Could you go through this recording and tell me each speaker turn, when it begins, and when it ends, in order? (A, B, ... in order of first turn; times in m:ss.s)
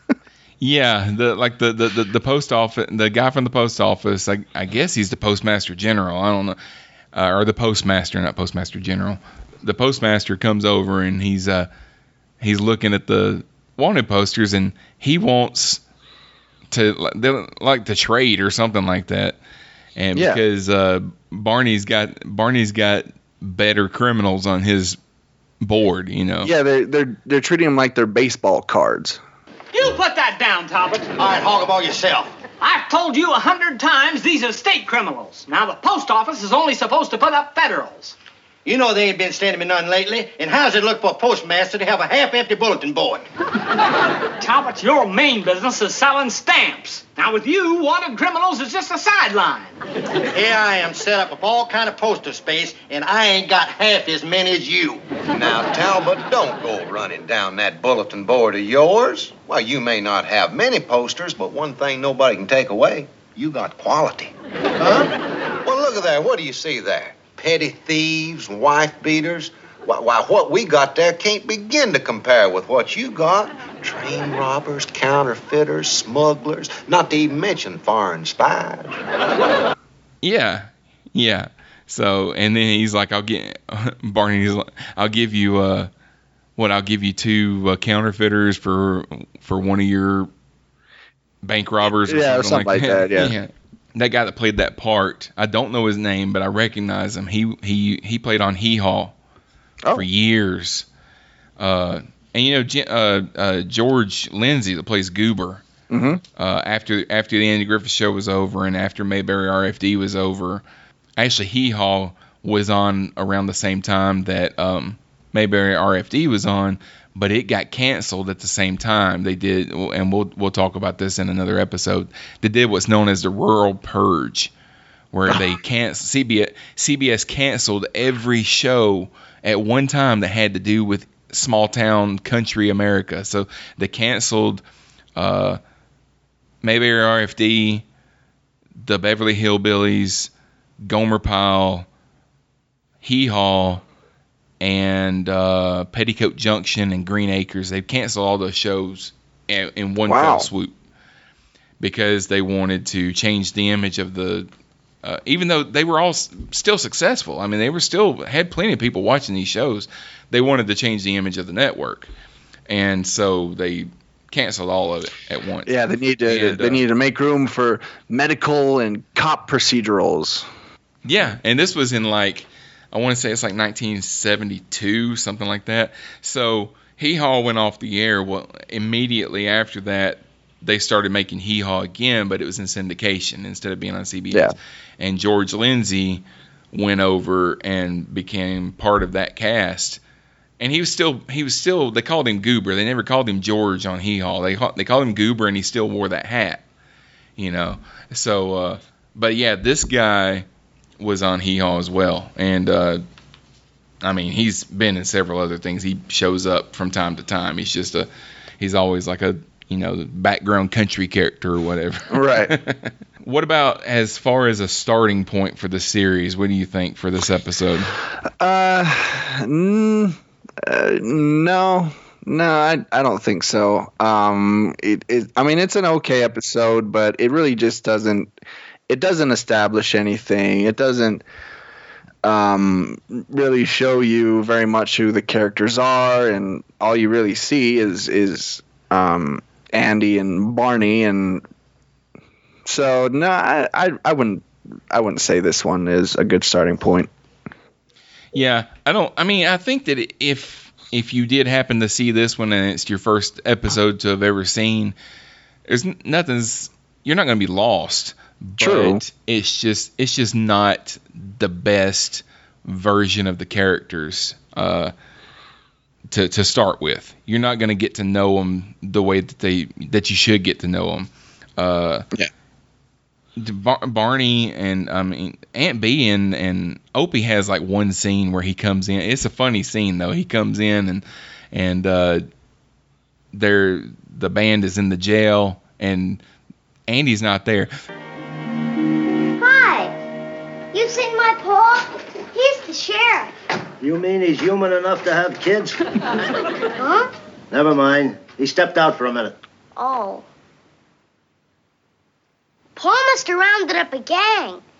0:00.6-0:06.6 A
0:07.1-0:11.7 A
0:12.4-0:15.8 A
0:16.7-0:19.4 A
0:20.0-0:25.0 A
0:20.2-0:20.4 B
0:25.6-0:26.5 A
0:26.4-0:29.2 B
0:29.7-0:31.2 C
0:31.2-0:32.3 D
0:32.6-0:38.2 C
0:38.6-0:43.2 D
0:44.4-0:49.7 C
0:50.3-0:55.1 D
0:55.3-1:04.3 E
1:04.8-1:05.1 D
1:05.6-1:19.1 E
1:20.2-1:25.9 A
1:26.6-1:30.3 A
1:31.4-1:39.2 A
1:32.1-1:33.3 B
1:39.9-1:40.9 A
1:41.6-1:45.6 A
1:45.9-1:46.2 B
1:46.4-1:50.6 A
1:51.2-2:04.5 A
2:05.1-2:14.6 A
2:15.2-2:15.6 A
2:16.6-2:17.8 A
2:18.8-2:20.3 A
2:20.8-2:21.9 A
2:23.0-2:23.8 A
2:24.6-2:30.7 A
2:30.1-2:30.5 B
2:31.8-2:34.5 A
2:35.0-2:42.1 A
2:42.7-2:45.7 A
2:45.7-2:50.4 B
2:46.2-2:46.8 A
2:51.0-3:10.0 A
3:10.6-3:16.6 A
3:17.4-3:20.4 A
3:21.0-3:23.0 A
3:24.0-3:28.1 A
3:28.6-3:37.9 A
3:32.1-3:32.6 B
3:38.4-3:48.3 B
3:48.9-3:51.2 B
3:52.2-4:01.4 B
4:02.7-4:07.1 B
4:08.3-4:15.0 A
4:15.7-4:24.9 A
4:18.6-4:19.0 B
4:26.1-4:32.1 A
4:33.4-4:42.2 A
4:43.3-4:46.2 A
4:46.9-4:47.7 A
4:49.4-4:50.0 F
4:50.7-4:53.3 F
4:53.8-4:55.8 D
4:56.8-4:57.1 F
4:57.5-4:59.4 D
4:59.8-5:00.2 F
5:02.8-5:04.6 F